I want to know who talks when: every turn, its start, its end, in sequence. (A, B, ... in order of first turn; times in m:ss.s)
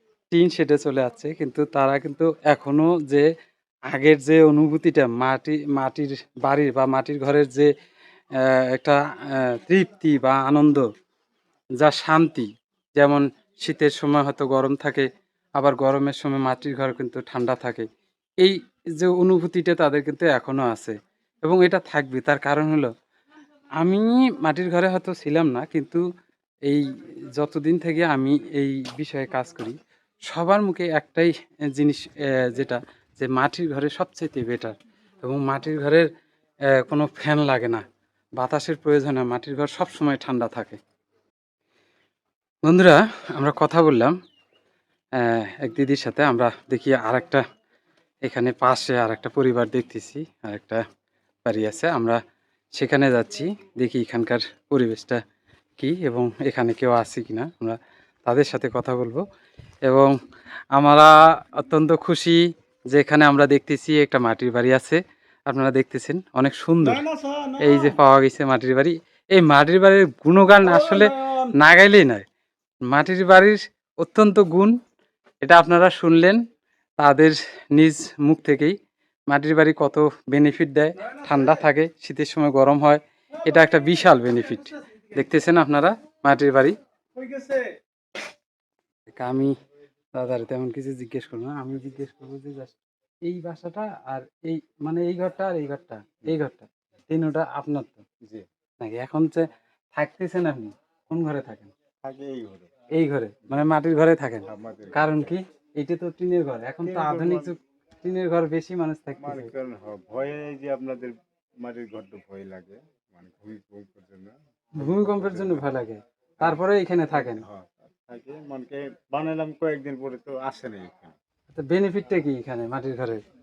0:00.3-0:03.3 A
0:03.9-0:07.7 A
0:08.4-0:10.9 A
0:11.8-0:17.9 A
0:18.4-0:22.9 A
0:23.8-0:26.0 A
0:26.6-0:36.1 A
0:36.7-0:37.8 A
0:38.4-0:40.8 A
0:42.6-0:44.1 A
0:45.2-0:47.4 A
0:48.2-0:50.8 A
0:51.4-0:52.2 A
0:52.7-0:55.2 A
0:55.8-0:59.2 A
0:59.8-1:00.1 A
1:00.7-1:07.0 A
1:06.8-1:07.9 B
1:07.6-1:12.2 A
1:10.6-1:11.4 B
1:12.9-1:14.8 A
1:15.4-1:16.4 A
1:17.0-1:18.8 A
1:19.3-1:26.8 A
1:27.2-1:27.7 B
1:29.1-1:29.5 A
1:30.1-1:38.0 A
1:38.8-1:41.7 A
1:42.0-1:42.7 B
1:42.9-1:49.5 A
1:44.4-1:45.4 B
1:46.8-1:47.5 B
1:49.2-1:55.6 B
1:54.8-1:57.4 A
1:57.1-2:01.1 B
2:01.5-2:03.2 A